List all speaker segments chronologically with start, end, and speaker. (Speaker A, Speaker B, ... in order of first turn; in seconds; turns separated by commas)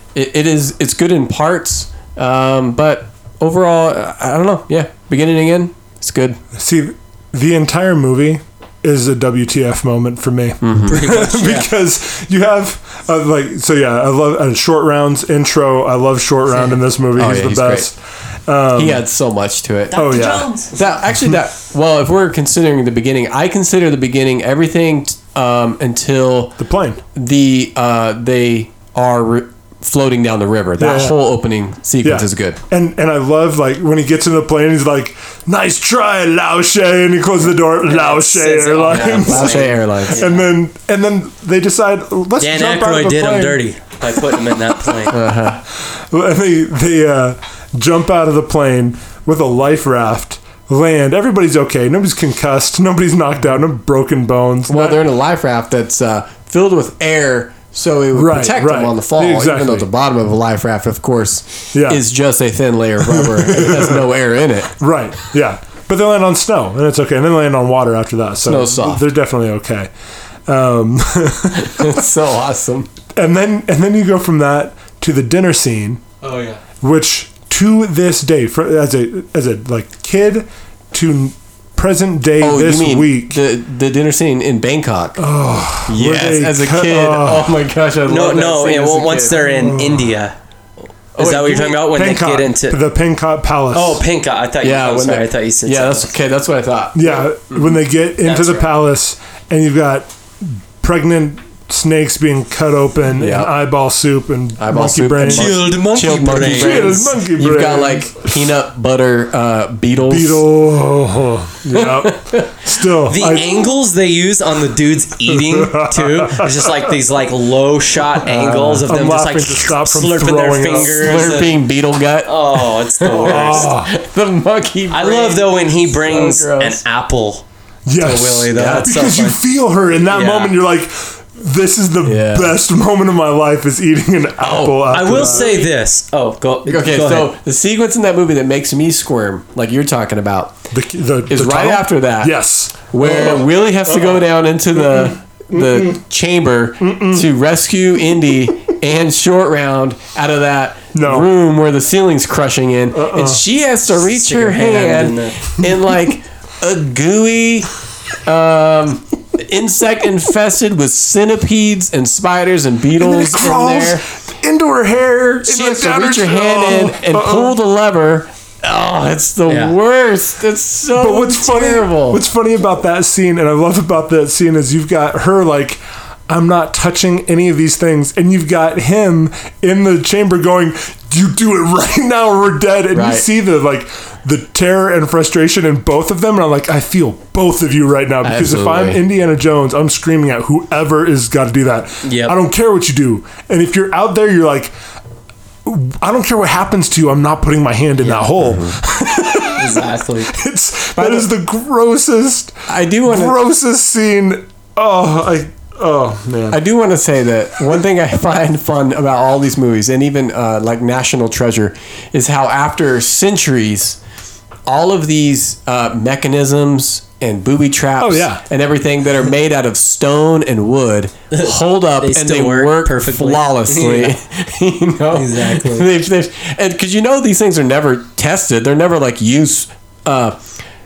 Speaker A: 0.1-6.4, Speaker B: 6.5-19.0, Speaker A: 10.6-11.0, Speaker C: 10.9-11.7, Speaker A: 17.1-17.9, Speaker A: 18.7-20.0, Speaker C: 19.9-20.8, Speaker B: 19.9-20.5, Speaker A: 20.7-26.6, Speaker B: 26.6-27.0, Speaker A: 27.1-32.6, Speaker B: 30.8-31.2, Speaker B: 32.0-44.9, Speaker C: 37.9-40.4, Speaker A: 38.9-40.2, Speaker C: 42.4-45.2, Speaker A: 45.1-45.6, Speaker B: 45.7-55.0, Speaker A: 54.7-64.7, Speaker B: 58.1-59.9, Speaker B: 61.7-62.0, Speaker B: 63.1-64.0, Speaker B: 64.8-69.9, Speaker A: 68.4-69.0, Speaker B: 70.5-71.9, Speaker A: 71.6-72.9, Speaker B: 73.2-76.0, Speaker C: 76.2-76.6, Speaker B: 76.8-83.4, Speaker A: 82.4-85.3, Speaker B: 85.2-87.5, Speaker A: 85.8-89.4, Speaker C: 88.1-90.3, Speaker B: 89.4-90.1, Speaker A: 91.1-91.8, Speaker C: 91.2-92.8, Speaker B: 91.9-94.0, Speaker C: 93.7-96.1, Speaker A: 94.6-97.8, Speaker B: 96.9-105.7, Speaker C: 98.2-98.7, Speaker A: 103.2-103.5, Speaker A: 104.6-110.5, Speaker C: 105.3-107.0, Speaker B: 106.3-108.5, Speaker B: 110.1-113.6, Speaker A: 111.7-112.6, Speaker C: 113.1-121.6, Speaker B: 115.3-116.9, Speaker B: 118.2-121.4, Speaker A: 120.7-126.8, Speaker C: 122.2-123.7, Speaker B: 123.2-123.9, Speaker C: 124.9-129.4, Speaker B: 127.8-135.6, Speaker C: 130.1-130.5, Speaker A: 132.0-132.6, Speaker A: 134.4-135.5, Speaker C: 134.9-137.3, Speaker A: 136.7-140.6, Speaker B: 140.7-144.1, Speaker A: 141.3-157.7, Speaker B: 144.8-146.0, Speaker B: 146.8-147.3, Speaker B: 150.9-151.3, Speaker B: 152.9-153.4, Speaker C: 154.0-155.5, Speaker A: 158.2-164.0, Speaker B: 163.0-167.5, Speaker A: 165.4-172.2, Speaker C: 169.5-169.8, Speaker B: 170.9-194.7, Speaker A: 182.9-183.2, Speaker A: 188.2-189.0, Speaker C: 192.0-192.3, Speaker B: 195.6-206.6, Speaker A: 198.4-198.8, Speaker C: 199.6-200.3, Speaker A: 200.9-201.3, Speaker A: 202.7-203.4, Speaker A: 206.5-214.0, Speaker A: 214.7-230.4, Speaker B: 218.0-218.4, Speaker C: 221.3-224.1, Speaker C: 225.1-225.9